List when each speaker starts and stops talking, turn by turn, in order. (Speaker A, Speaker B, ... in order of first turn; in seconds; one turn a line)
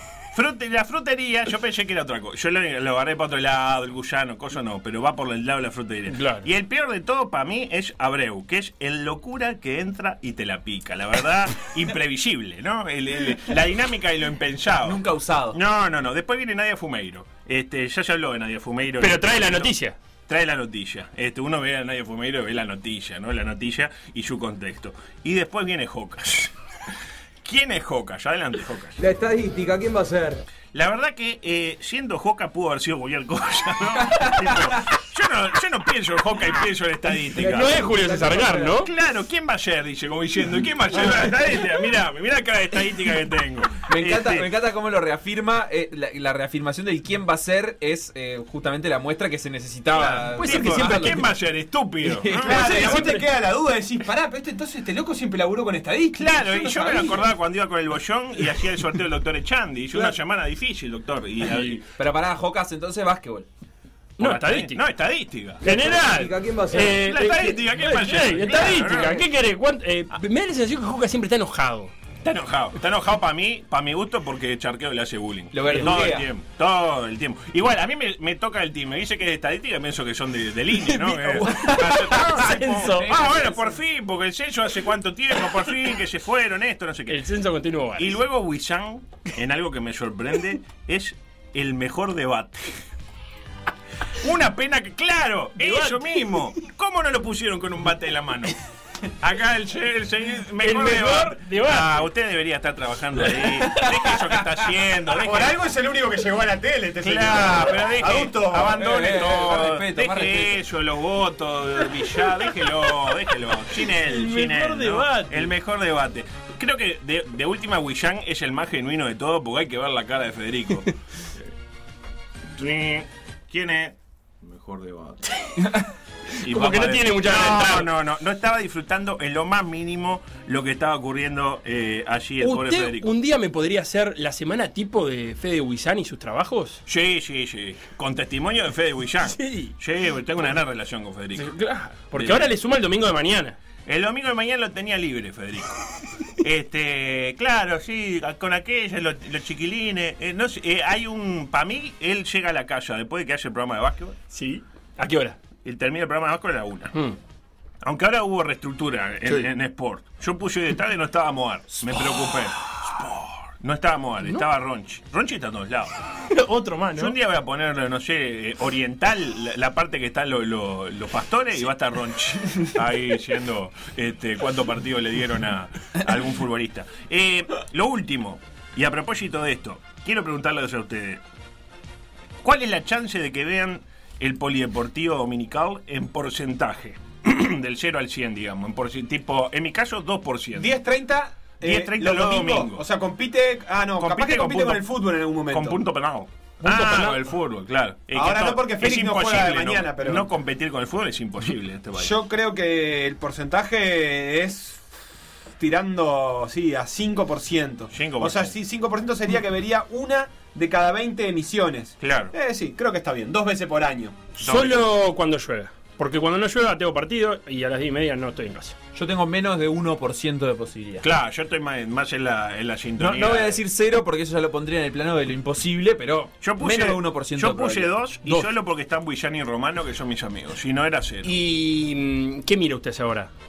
Speaker A: 0.3-15.0
Speaker B: 6.1-6.5
Speaker C: 14.8-15.6
Speaker A: 15.5-19.7
Speaker B: 19.0-20.0
Speaker A: 20.3-26.5
Speaker A: 27.4-29.0
Speaker D: 29.0-30.4
Speaker A: 30.7-38.0
Speaker B: 37.4-38.9
Speaker D: 37.4-38.7
Speaker A: 38.6-44.5
Speaker C: 43.9-51.2
Speaker B: 49.9-51.3
Speaker A: 50.4-53.0
Speaker C: 52.0-53.0
Speaker E: 52.5-57.2
Speaker B: 52.6-53.2
Speaker A: 56.1-61.8
Speaker B: 61.5-61.8
Speaker C: 62.0-63.5
Speaker B: 64.2-64.8
Speaker A: 64.2-65.7
Speaker B: 65.6-71.9
Speaker D: 65.7-67.0
Speaker A: 66.8-69.3
Speaker A: 72.2-87.3
Speaker C: 75.5-76.2
Speaker B: 80.9-83.1
Speaker C: 82.9-83.8
Speaker B: 87.1-88.2
Speaker A: 88.0-92.8
Speaker A: 94.2-98.5
Speaker B: 95.6-96.3
Speaker A: 99.2-105.6
Speaker B: 100.6-102.0
Speaker E: 105.2-108.9
Speaker A: 107.0-120.9
Speaker C: 108.8-110.6
Speaker B: 113.9-115.5
Speaker A: 122.6-125.2
Speaker A: 126.4-133.2
Speaker B: 126.4-127.9
Speaker B: 132.4-136.8
Speaker A: 136.9-141.6
Speaker B: 139.2-139.7
Speaker B: 141.4-143.6
Speaker A: 142.1-142.5
Speaker A: 143.9-145.8
Speaker A: 146.4-154.2
Speaker B: 154.3-155.4
Speaker A: 155.6-156.9
Speaker A: 157.8-163.0
Speaker A: 163.6-166.0
Speaker B: 166.3-167.1
Speaker A: 166.9-181.2
Speaker A: 182.4-190.7
Speaker E: 190.6-195.8
Speaker A: 191.6-192.8
Speaker A: 194.0-194.9
Speaker A: 195.5-202.2
Speaker B: 196.6-197.3
Speaker E: 198.1-200.3
Speaker E: 202.0-204.8
Speaker E: 205.6-214.2
Speaker A: 207.9-208.5
Speaker A: 212.0-212.3
Speaker B: 214.4-218.8
Speaker A: 214.4-214.8
Speaker C: 218.9-221.1
Speaker A: 221.0-223.6
Speaker C: 223.0-227.9
Speaker A: 226.4-231.4
Speaker B: 231.2-233.3